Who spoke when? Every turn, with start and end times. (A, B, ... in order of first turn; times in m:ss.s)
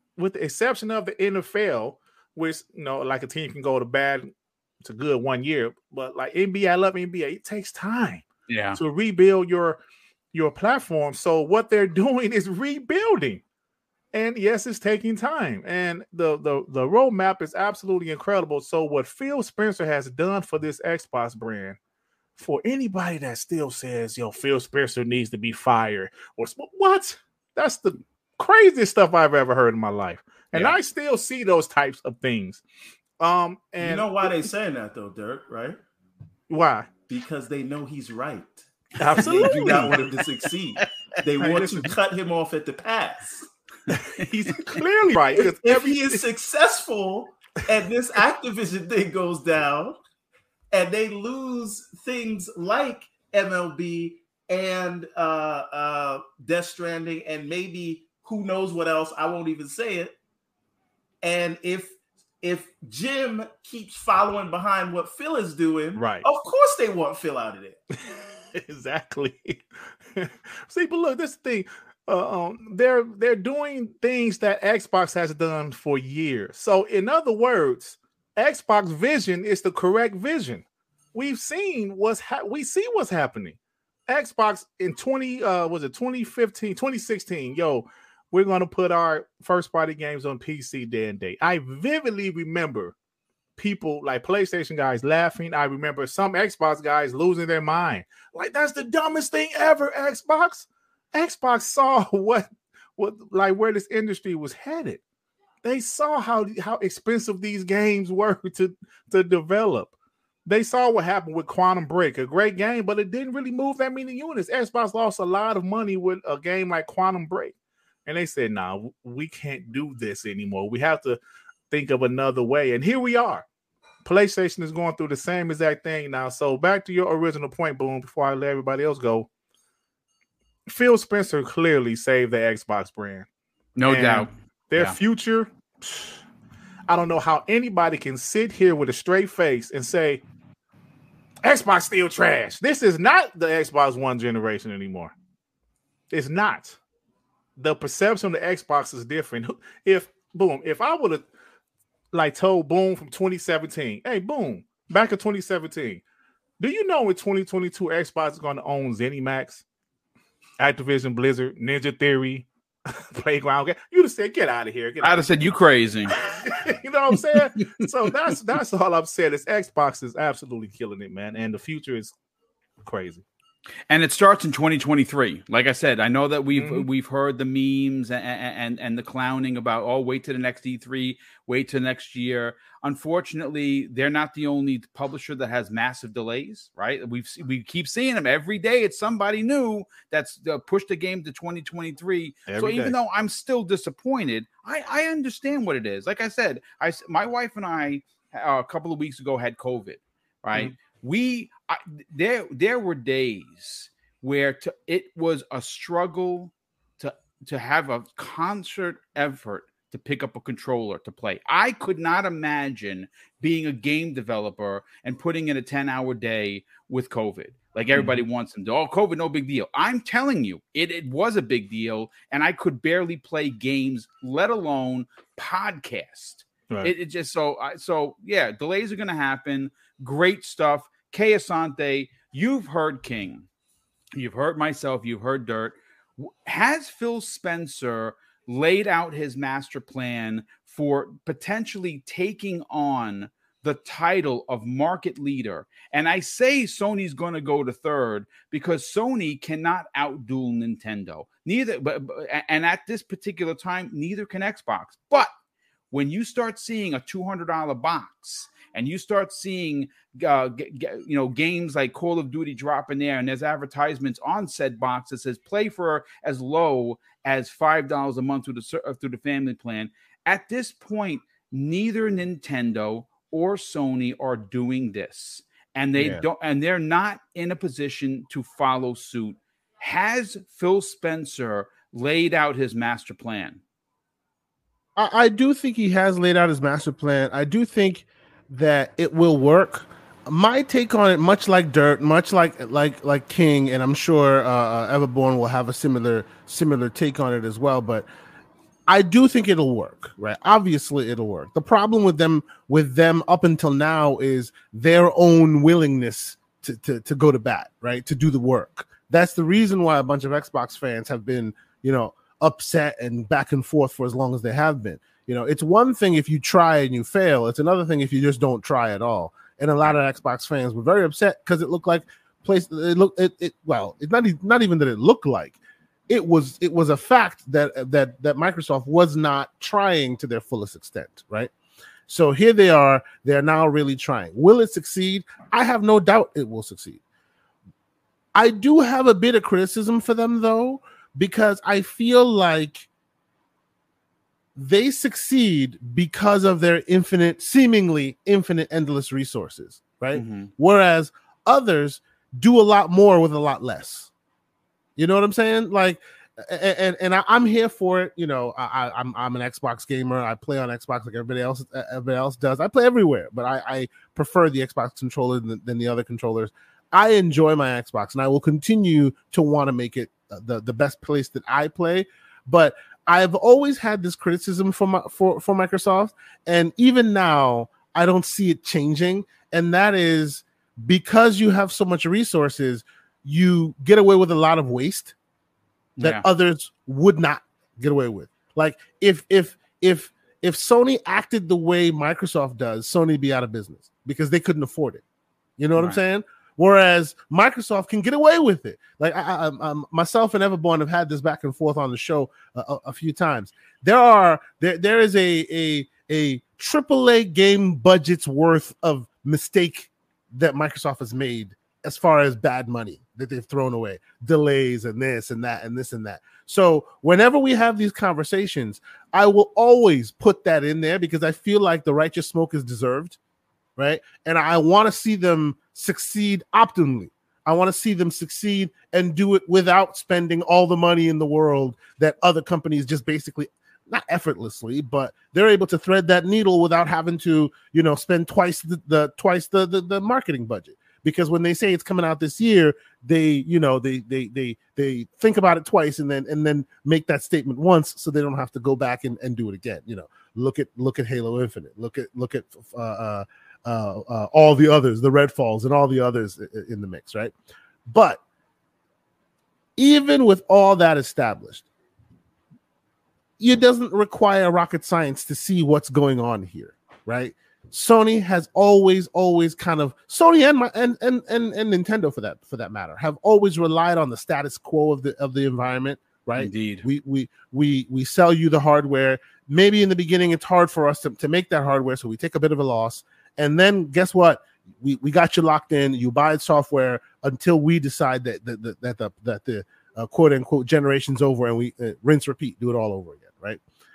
0:00.2-0:09.8 A
0:08.5-0:08.8 B
0:10.3-0:13.4 A
0:14.1-0:21.8 A
0:22.4-0:32.6 A
0:33.2-0:34.3 A
0:33.8-0:35.8 C
0:36.5-0:36.9 A
0:37.1-0:43.5 C
0:39.0-0:40.1 A
0:39.2-0:39.4 B
0:41.4-0:41.9 A
0:43.9-0:46.2 A
0:44.5-0:44.8 B
0:45.3-0:50.0 C
0:50.7-1:00.1 C
1:01.2-1:07.8 C
1:05.9-1:06.2 A
1:08.5-1:32.9 A
1:33.6-1:45.0 A
1:45.6-1:49.9 A
1:50.4-1:57.5 A
1:58.0-2:01.2 A
2:01.7-2:03.4 A
2:04.0-2:09.3 A
2:10.7-2:13.3 A
2:13.8-2:15.0 B
2:13.8-2:16.2 A
2:16.9-2:20.2 A
2:21.4-2:25.1 A
2:26.1-2:26.8 A
2:27.6-2:31.3 A
2:32.1-2:36.0 A
2:36.6-2:39.6 A
2:40.6-2:45.6 A
2:45.0-2:46.2 B
2:46.1-2:52.1 A
2:52.8-2:53.2 A
2:53.9-3:53.5 B
2:56.6-2:56.9 A
3:12.5-3:12.9 A
3:37.9-3:38.2 A
3:54.1-4:15.3 B
4:15.9-4:43.6 B
4:36.0-4:36.2 D
4:45.0-4:58.0 D
4:58.9-5:25.6 D
5:26.1-5:31.5 D
5:32.1-5:37.0 D
5:38.3-5:42.8 D
5:44.6-5:54.1 D
5:50.1-5:50.5 B
5:55.0-6:25.1 D
6:26.0-6:26.2 B
6:26.0-6:35.0 D
6:35.6-7:03.2 D
6:35.8-6:36.0 B
7:03.8-7:37.3 D
7:37.9-7:38.2 D
7:39.8-7:41.6 D
7:43.4-8:13.6 D
7:56.4-7:56.8 B